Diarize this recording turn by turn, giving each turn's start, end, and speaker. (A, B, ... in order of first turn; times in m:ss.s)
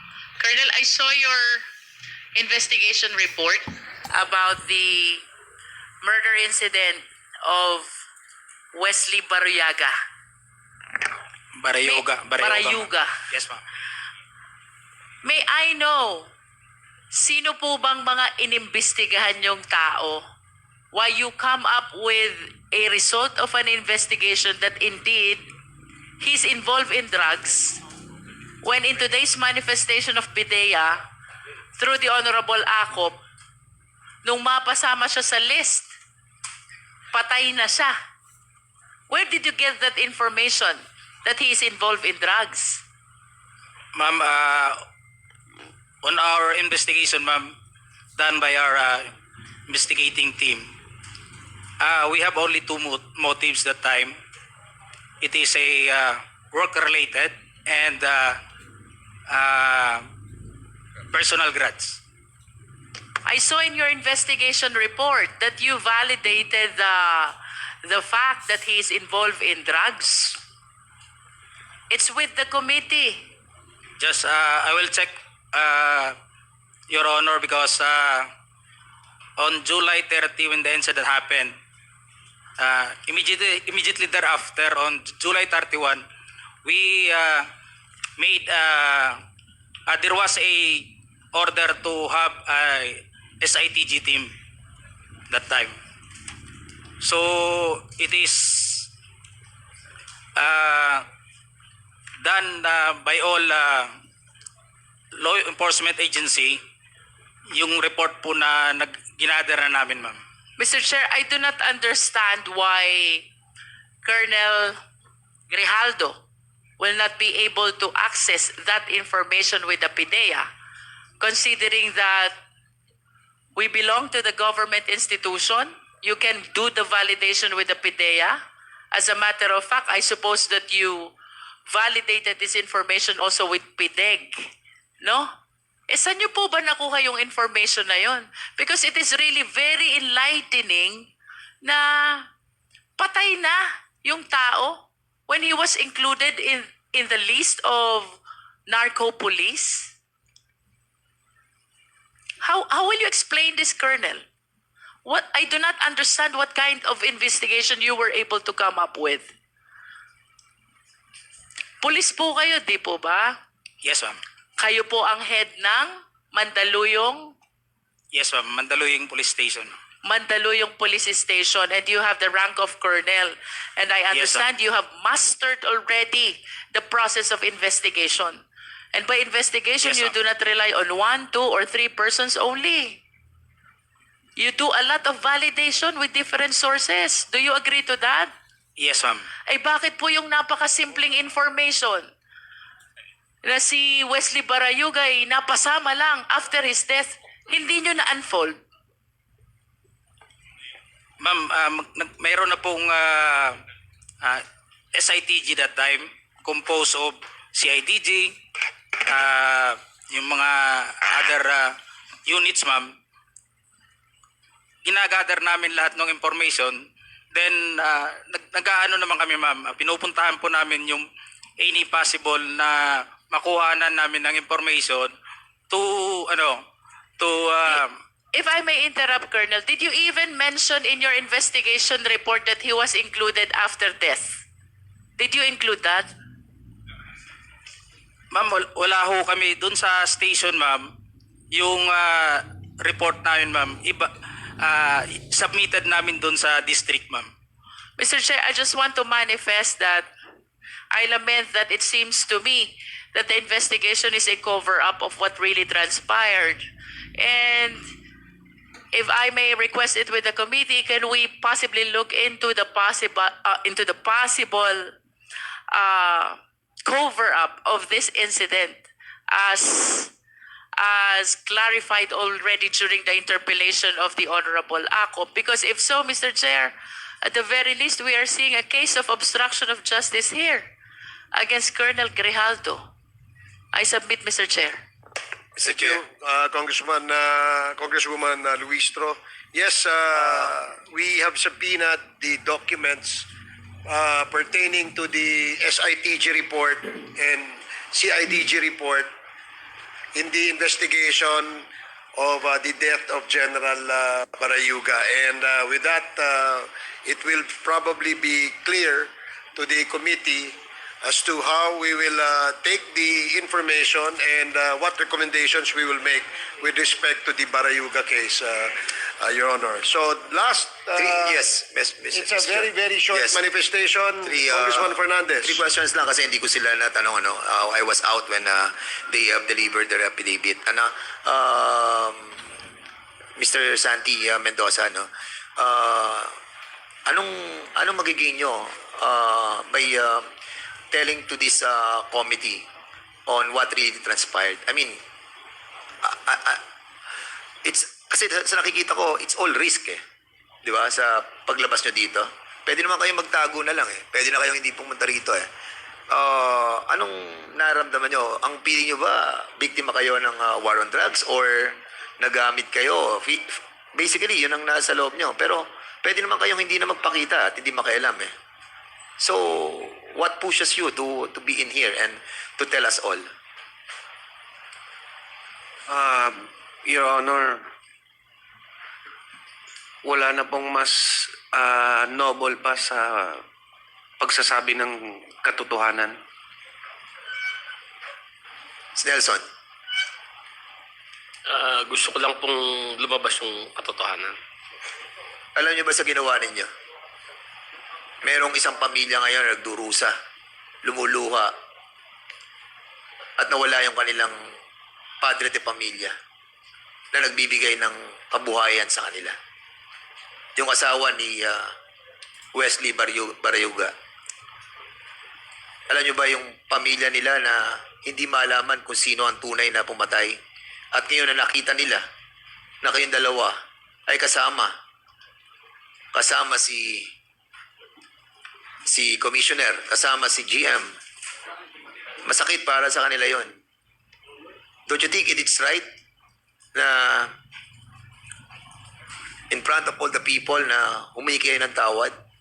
0:00.4-0:01.6 A
0:02.4-0:05.2 A
0:06.0-0:07.9 A
0:08.7-0:10.0 A
0:11.6-0:13.6 B
0:11.8-0:13.1 A
0:15.2-0:16.3 A
0:17.1-0:20.2 A
0:20.9-0:25.4 A
0:26.2-0:27.8 A
0:28.6-0:31.0 A
0:31.8-0:33.2 A
0:34.2-0:35.9 A
0:37.1-0:38.0 A
0:39.1-0:42.8 A
0:44.0-0:44.8 B
0:46.0-0:47.5 B
0:48.2-0:49.1 B
0:49.7-0:50.7 B
0:51.8-0:54.2 B
0:55.2-0:58.4 B
0:59.3-1:00.1 B
1:01.1-1:02.0 B
1:03.2-1:10.4 A
1:11.9-1:13.2 A
1:14.0-1:16.2 B
1:16.9-1:18.3 B
1:19.4-1:21.5 B
1:22.6-1:26.0 B
1:26.6-1:27.5 B
1:28.2-1:29.2 B
1:29.9-1:34.3 B
1:35.3-1:35.8 B
1:37.0-1:38.9 B
1:40.4-1:41.0 B
1:42.2-1:43.9 B
1:45.2-1:46.6 B
1:47.6-1:50.2 B
1:50.6-1:53.3 A
1:54.0-1:54.8 A
1:55.5-1:56.2 A
1:56.8-2:00.5 A
2:01.2-2:02.4 A
2:03.6-2:08.4 A
2:08.9-2:11.1 A
2:11.7-2:14.4 A
2:15.0-2:15.3 A
2:15.9-2:21.1 A
2:21.6-2:22.3 A
2:23.0-2:29.9 A
2:32.4-2:34.2 A
2:35.0-2:39.3 A
2:41.8-2:43.4 A
2:43.8-2:44.2 B
2:44.6-2:47.4 A
2:48.1-2:49.8 B
2:50.0-2:58.4 A
2:54.1-2:54.4 B
2:58.9-3:03.0 A
2:59.8-3:00.1 B
3:04.4-3:08.3 A
3:08.8-3:09.3 B
3:09.5-3:12.1 A
3:13.4-3:18.6 A
3:21.2-3:23.6 B
3:24.9-3:28.3 B
3:29.1-3:31.8 B
3:32.3-3:32.9 B
3:34.8-3:36.8 B
3:37.3-3:41.0 B
3:41.6-3:45.1 B
3:45.7-3:46.6 B
3:47.2-3:47.9 B
3:48.3-3:54.4 A
3:55.2-3:56.1 A
3:58.3-4:00.9 B
4:01.5-4:07.3 B
4:08.0-4:10.1 A
4:10.9-4:16.6 A
4:17.2-4:17.8 A
4:18.9-4:24.9 A
4:25.7-4:30.1 A
4:30.8-4:40.7 A
4:41.3-4:42.8 A
4:43.7-4:44.8 A
4:45.6-4:53.3 C
4:45.6-4:46.0 D
4:53.9-4:59.1 C
5:00.2-5:21.4 C
5:21.0-5:23.4 D
5:22.1-5:25.6 C
5:24.2-5:32.4 D
5:33.4-5:36.3 D
5:37.1-5:40.2 D
5:40.9-5:42.6 D
5:43.3-5:45.0 D
5:46.0-5:46.6 D
5:47.6-5:50.0 D
5:50.6-5:55.5 D
5:56.1-6:08.3 D
6:09.2-6:13.3 D
6:15.9-6:17.6 E
6:20.0-6:23.4 E
6:24.2-6:26.1 E
6:29.0-6:29.4 D
6:31.5-6:34.4 F
6:35.6-6:36.7 D
6:38.2-6:40.1 D
6:40.8-6:41.5 D
6:43.4-6:44.4 D
6:45.2-6:46.1 D
6:47.1-6:49.4 D
6:50.6-6:51.7 D
6:52.5-6:53.9 D
6:55.9-7:00.4 D
7:00.9-7:02.0 D
7:02.8-7:03.6 D
7:04.1-7:04.7 D
7:06.2-7:07.1 D
7:08.9-7:10.9 D
7:12.3-7:13.5 D
7:14.9-7:15.9 D
7:16.8-7:17.3 D
7:19.5-7:22.2 D